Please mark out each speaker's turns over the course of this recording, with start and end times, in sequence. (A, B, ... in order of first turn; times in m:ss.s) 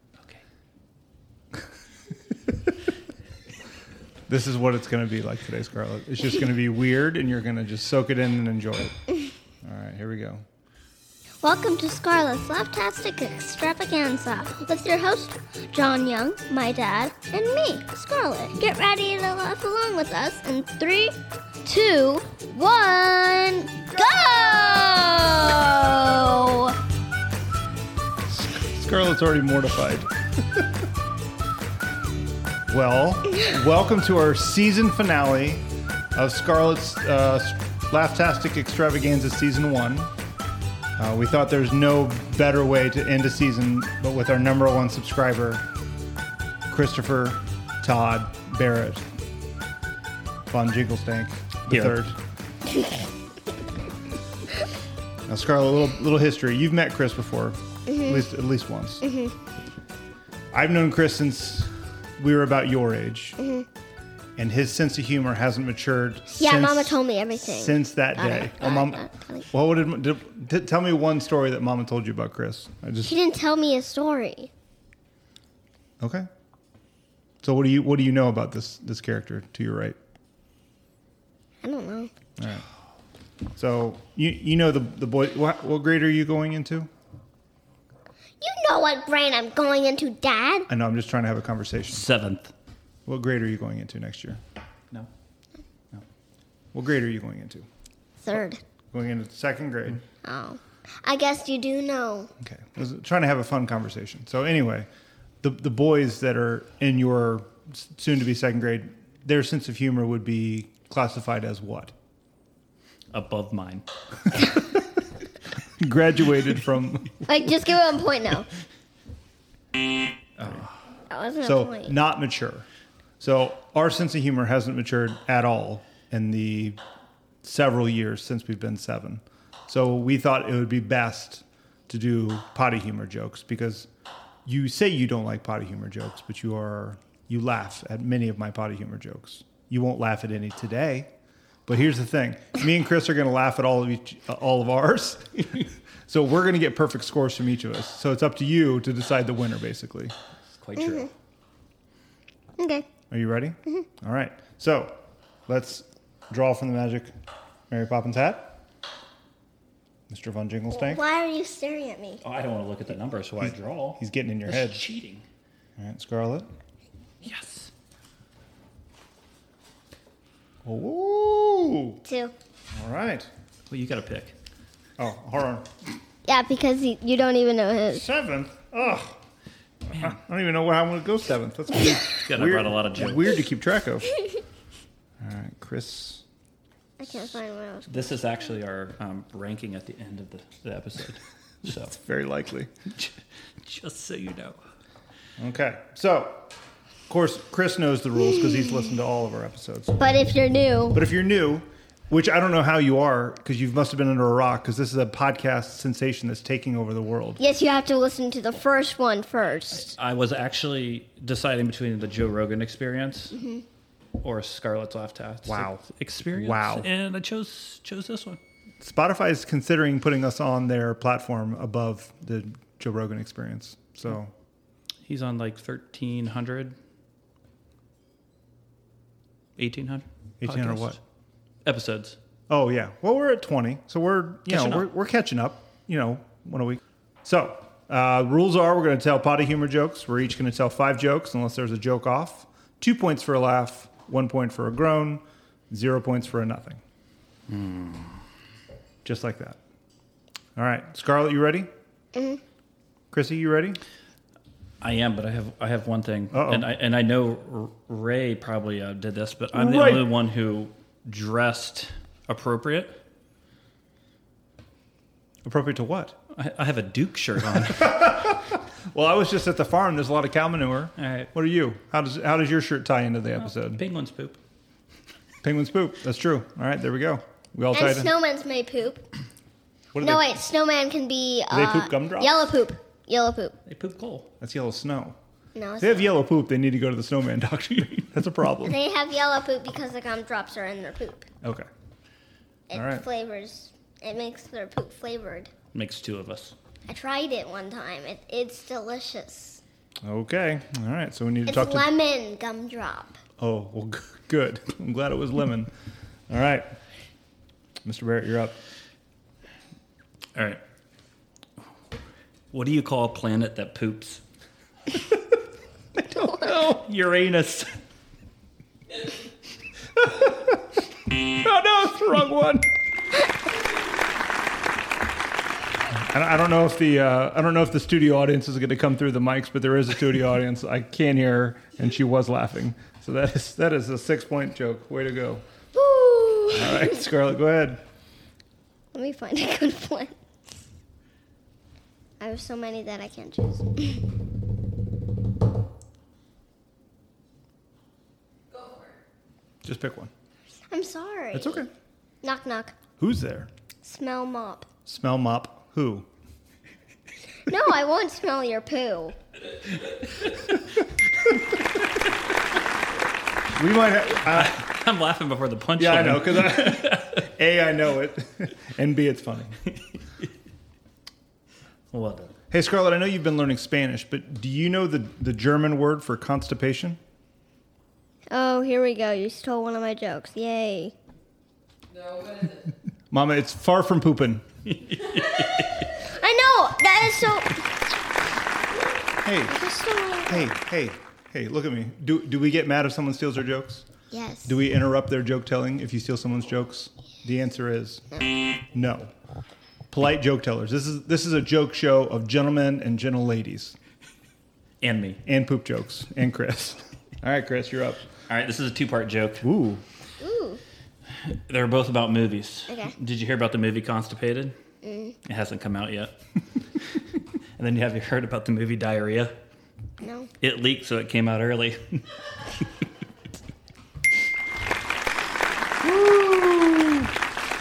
0:04.3-0:08.9 A
0:09.6-0:10.4 A
0:11.4-0:26.8 B
0:28.3-0:30.6 A
0:32.7-0:40.1 A
0:41.0-0:45.6 A
0:46.7-0:49.0 A
0:50.5-0:52.2 A
0:51.7-0:52.0 C
0:55.3-0:59.0 A
0:57.9-0:58.3 B
0:59.0-0:59.4 B
1:00.5-1:03.4 A
1:03.4-1:03.7 B
1:04.4-1:13.1 A
1:06.3-1:09.5 B
1:13.0-1:14.5 B
1:16.0-1:16.3 A
1:17.4-1:20.0 A
1:21.6-1:22.1 B
1:22.4-1:22.6 A
1:23.6-1:26.9 A
1:28.4-1:30.7 B
1:30.7-1:32.0 A
1:31.9-1:32.5 C
1:33.0-1:34.4 A
1:36.7-1:37.7 A
1:38.2-1:38.6 B
1:38.9-1:40.0 A
1:40.2-1:42.3 B
1:42.4-1:44.9 A
1:45.4-1:51.9 A
1:53.1-1:53.8 C
1:54.4-1:54.7 A
1:55.8-1:57.2 A
1:57.2-1:58.4 B
2:00.4-2:00.7 A
2:00.4-2:00.7 C
2:01.1-2:02.0 B
2:01.4-2:02.7 A
2:03.2-2:06.8 A
2:07.4-2:13.9 A
2:14.4-2:21.1 A
2:21.7-2:30.1 A
2:30.5-2:31.1 C
2:30.8-2:31.1 B
2:32.6-2:32.9 B
2:33.1-2:37.1 A
2:37.7-2:38.6 A
2:40.1-2:41.0 A
2:40.7-2:42.2 B
2:42.2-2:45.2 C
2:44.0-2:44.8 A
2:45.8-2:46.4 A
2:47.2-2:47.7 C
2:50.6-2:52.0 A
2:52.0-2:52.3 B
2:52.7-2:53.3 A
2:53.7-2:54.3 C
2:55.0-2:55.7 A
2:56.2-2:58.1 B
2:57.9-2:59.2 A
2:59.9-3:04.1 A
3:01.7-3:03.4 C
3:05.2-3:06.2 A
3:07.0-3:08.4 B
3:07.9-3:11.9 C
3:11.7-3:12.7 A
3:12.9-3:14.6 C
3:15.4-3:16.5 A
3:17.1-3:20.0 A
3:18.2-3:18.9 B
3:20.0-3:21.0 B
3:20.9-3:27.4 A
3:27.4-3:30.0 B
3:29.7-3:33.4 C
3:33.3-3:33.6 B
3:34.2-3:38.4 C
3:35.4-3:36.9 A
3:38.8-3:44.3 A
3:45.1-3:46.8 C
3:49.6-3:51.0 C
3:50.4-3:51.0 A
3:51.6-3:52.2 C
3:52.5-4:06.8 A
3:54.5-3:54.9 C
4:07.5-4:08.2 C
4:09.0-4:09.6 A
4:10.6-4:11.7 A
4:12.1-4:12.4 B
4:13.1-4:13.8 A
4:14.8-4:23.0 C
4:16.3-4:16.7 A
4:19.5-4:20.1 A
4:25.4-4:26.2 A
4:26.3-4:28.4 C
4:27.7-4:33.8 A
4:31.0-4:31.3 C
4:33.4-4:34.4 C
4:35.4-4:38.1 A
4:37.7-4:39.1 B
4:39.9-4:40.4 A
4:40.0-4:43.6 B
4:41.5-4:42.5 A
4:43.7-4:44.3 C
4:44.4-4:45.2 A
4:45.6-4:46.2 B
4:45.8-4:48.8 A
4:48.6-4:51.3 B
4:51.4-4:51.7 A
4:52.7-4:55.5 B
4:52.7-4:53.0 A
4:55.7-4:56.6 C
4:56.9-4:59.6 B
5:00.0-5:01.9 A
5:01.5-5:03.2 B
5:03.4-5:05.7 A
5:06.3-5:06.6 A
5:07.8-5:08.6 A
5:10.4-5:10.6 C
5:12.5-5:14.2 C
5:16.0-5:17.8 C
5:20.0-5:20.6 A
5:21.2-5:22.7 A
5:26.1-5:35.4 A
5:35.7-5:37.0 B
5:36.5-5:37.8 A
5:38.9-5:40.2 B
5:42.2-5:44.1 B
5:49.6-5:50.1 A
5:50.7-5:51.7 B
5:51.3-5:51.7 A
5:52.2-5:52.8 B
5:53.0-5:53.5 A
5:53.8-5:54.7 B
5:54.9-5:56.1 A
5:57.5-5:59.2 B
6:03.6-6:04.6 A
6:04.2-6:07.2 C
6:05.8-6:09.6 A
6:11.9-6:12.3 C
6:12.5-6:17.0 A
6:18.3-6:20.9 B
6:23.1-6:24.4 A
6:24.8-6:25.9 C
6:25.8-6:27.8 B
6:29.2-6:29.7 A
6:29.5-6:30.5 B
6:30.3-6:33.9 A
6:34.1-6:34.6 B
6:34.5-6:38.1 A
6:38.7-6:39.1 A
6:39.9-6:43.8 A
6:44.8-6:45.2 C
6:45.2-6:48.1 A
6:48.3-6:49.4 C
6:49.4-6:49.8 A
6:50.2-6:50.6 B
6:51.1-6:54.5 C
6:52.7-6:53.0 B
6:54.8-6:55.2 B
6:55.2-6:56.2 C
6:57.6-6:59.3 C
7:00.0-7:00.3 B
7:00.4-7:02.0 C
7:05.8-7:07.1 A